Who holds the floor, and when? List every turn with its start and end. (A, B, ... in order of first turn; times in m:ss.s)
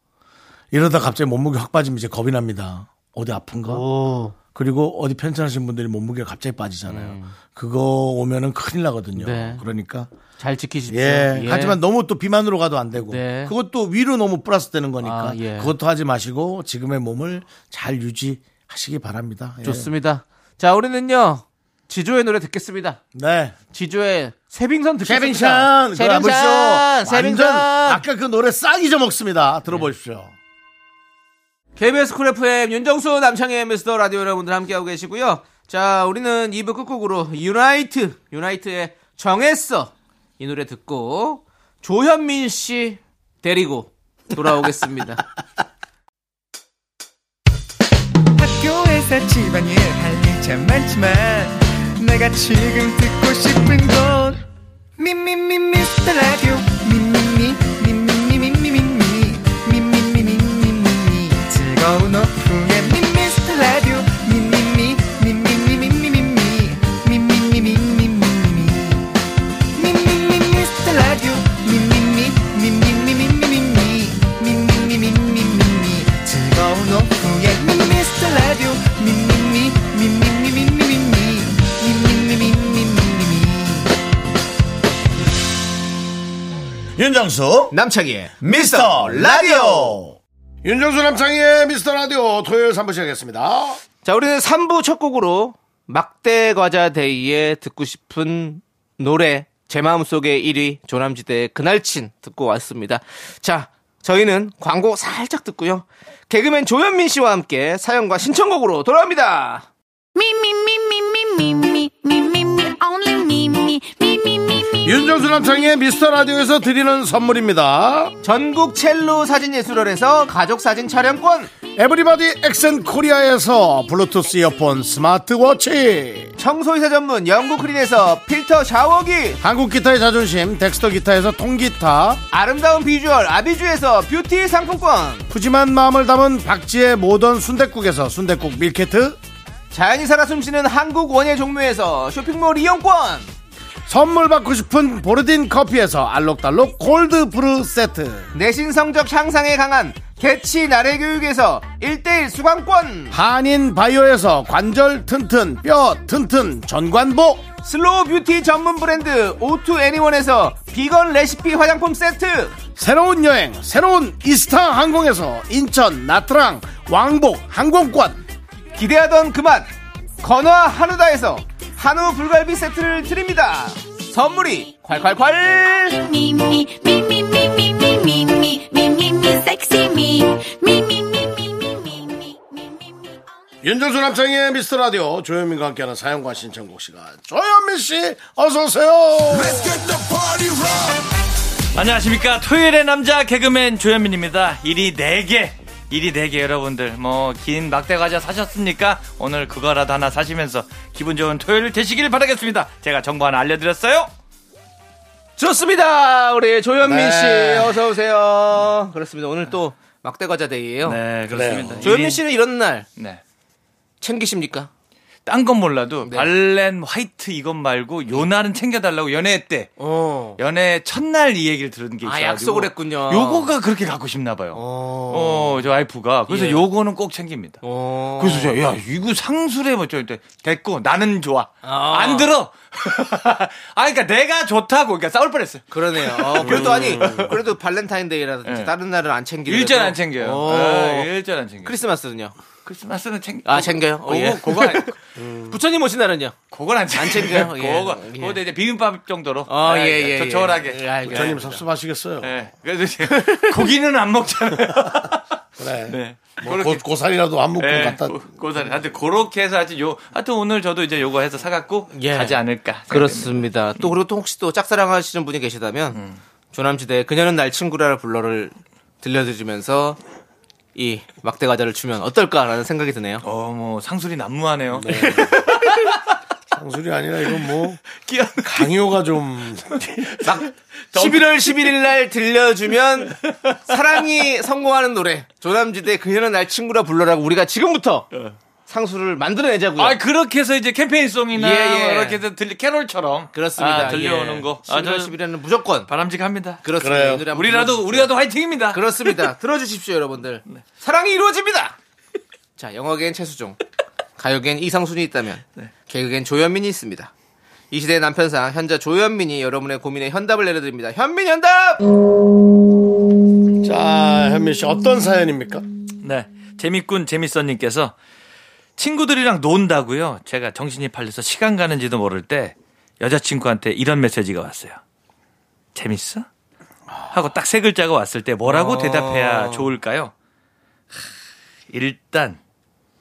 0:00.7-0:03.8 A
0:03.7-0:04.4 B
0:04.5-0:10.1 A
0:06.9-0:07.4 B
0:09.2-0:09.6 B
0:10.4-0:11.8 B
0:10.9-0:19.9 A
0:13.0-0:13.5 B
0:15.0-0:15.7 B
0:19.6-0:23.0 B
0:23.1-0:23.6 A
0:23.7-0:28.0 B
0:25.0-0:30.3 A
0:31.8-0:45.2 B
0:48.4-0:54.4 C
0:55.0-1:09.1 C
1:09.8-1:23.9 C
1:27.0-1:27.7 A
1:27.7-1:30.0 B
1:28.4-1:33.8 A
1:34.0-1:49.7 B
1:50.2-1:54.9 D
1:54.8-1:58.1 A
1:58.2-2:01.5 B
2:01.7-2:06.3 A
2:06.4-2:09.4 B
2:09.4-2:12.2 A
2:12.3-2:15.3 B
2:15.3-2:19.2 A
2:19.7-2:23.3 B
2:23.9-2:28.3 A
2:28.3-2:33.2 B
2:33.1-2:37.4 A
2:37.6-2:42.6 B
2:42.8-2:48.2 A
2:48.8-2:49.7 B
2:50.2-2:56.0 B
2:55.9-3:03.2 D
3:03.6-3:10.7 A
3:11.7-3:24.1 E
3:25.4-3:31.0 B
3:26.8-3:27.8 A
3:30.8-3:32.2 E
3:31.3-3:32.0 A
3:31.8-3:32.9 B
3:33.0-3:33.2 E
3:34.0-3:34.7 B
3:35.3-3:39.7 E
3:39.8-3:40.4 B
3:40.4-3:47.6 E
3:42.0-3:43.5 B
3:44.5-3:45.6 B
3:46.3-3:46.6 B
3:47.6-3:48.6 B
3:48.2-3:57.4 E
3:51.6-3:52.3 B
3:55.7-4:01.1 B
3:56.5-3:57.4 A
3:58.4-3:58.7 E
3:59.5-4:01.8 E
4:01.6-4:02.4 B
4:02.6-4:05.0 E
4:03.4-4:05.0 B
4:05.2-4:05.6 A
4:05.5-4:06.4 B
4:06.5-4:11.6 E
4:06.9-4:08.4 B
4:09.5-4:11.6 B
4:11.0-4:12.3 A
4:12.2-4:15.3 E
4:13.1-4:13.7 B
4:15.6-4:18.2 A
4:15.9-4:16.8 E
4:17.6-4:23.9 E
4:21.9-4:26.0 B
4:25.9-4:26.2 E
4:26.5-4:30.0 B
4:30.8-4:33.2 B
4:33.2-4:36.1 E
4:34.7-4:35.5 A
4:36.5-4:37.8 A
4:38.0-4:38.7 E
4:38.4-4:40.3 A
4:40.2-4:48.1 B
4:40.9-4:41.7 E
4:48.7-4:50.0 B
4:49.8-4:55.2 E
4:51.3-4:52.2 B
4:53.3-4:55.9 B
4:55.9-4:56.6 E
4:56.6-4:58.1 B
4:56.8-4:57.2 A
4:57.2-4:59.2 E
4:58.7-5:01.8 B
5:02.6-5:03.6 B
5:04.2-5:07.1 B
5:07.7-5:11.9 B
5:13.6-5:15.7 A
5:16.0-5:17.9 E
5:18.8-5:24.8 E
5:25.8-5:26.3 E
5:27.1-5:30.1 E
5:28.4-5:29.7 B
5:31.7-5:32.4 E